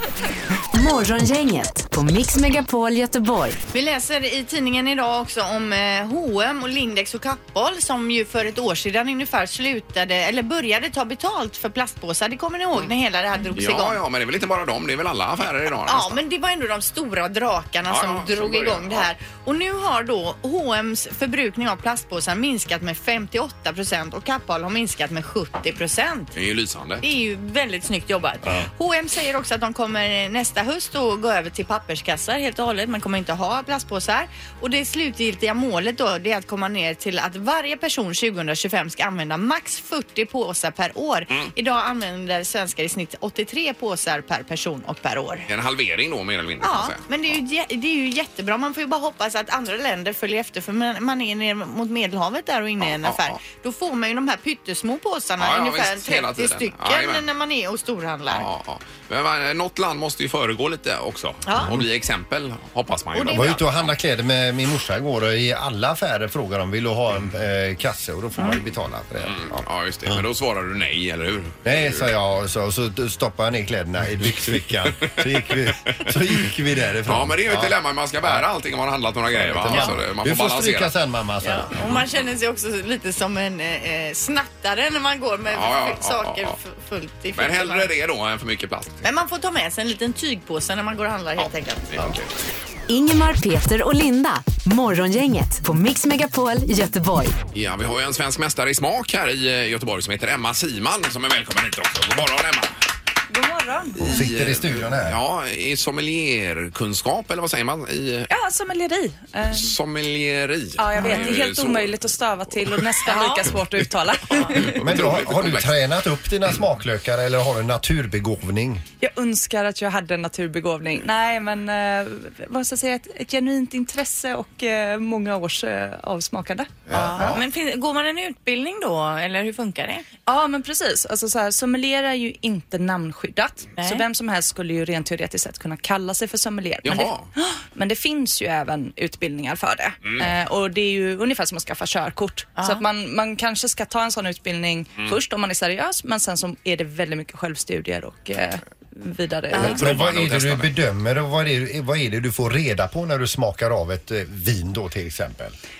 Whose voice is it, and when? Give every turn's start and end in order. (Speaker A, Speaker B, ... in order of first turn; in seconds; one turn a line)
Speaker A: 0.7-3.6
Speaker B: 3.7-14.0
Speaker C: 13.5-16.2
Speaker B: 15.9-26.3
Speaker C: 17.9-19.1
Speaker C: 26.3-27.0
Speaker B: 27.0-45.5
Speaker C: 45.5-47.0
Speaker B: 46.6-58.5
Speaker C: 52.8-53.4
Speaker C: 55.4-57.2
Speaker C: 58.3-63.9
Speaker B: 61.5-61.8
Speaker B: 63.1-63.5
Speaker D: 63.3-70.2
Speaker C: 69.2-72.1
Speaker D: 71.6-78.5
Speaker C: 77.0-80.9
Speaker D: 79.3-82.0
Speaker B: 81.4-87.9
Speaker C: 85.5-86.5
Speaker C: 87.3-89.0
Speaker B: 89.0-92.1
Speaker C: 91.4-92.3
Speaker A: 92.9-97.4
Speaker C: 97.5-102.7
Speaker E: 103.3-104.1
Speaker D: 104.0-105.2
Speaker C: 104.0-108.3
Speaker E: 108.3-109.7
Speaker C: 109.5-112.0
Speaker E: 110.8-114.8
Speaker B: 113.0-113.5
Speaker B: 114.3-114.6
Speaker C: 114.5-115.8
Speaker D: 114.8-118.8
Speaker E: 119.0-126.7
Speaker C: 126.9-127.3
Speaker D: 126.9-127.4
Speaker B: 126.9-130.0
Speaker E: 130.2-149.8
Speaker B: 133.8-134.0
Speaker C: 136.8-137.3
Speaker B: 142.6-142.8
Speaker B: 149.5-149.8
Speaker D: 149.6-155.6
Speaker C: 149.6-150.7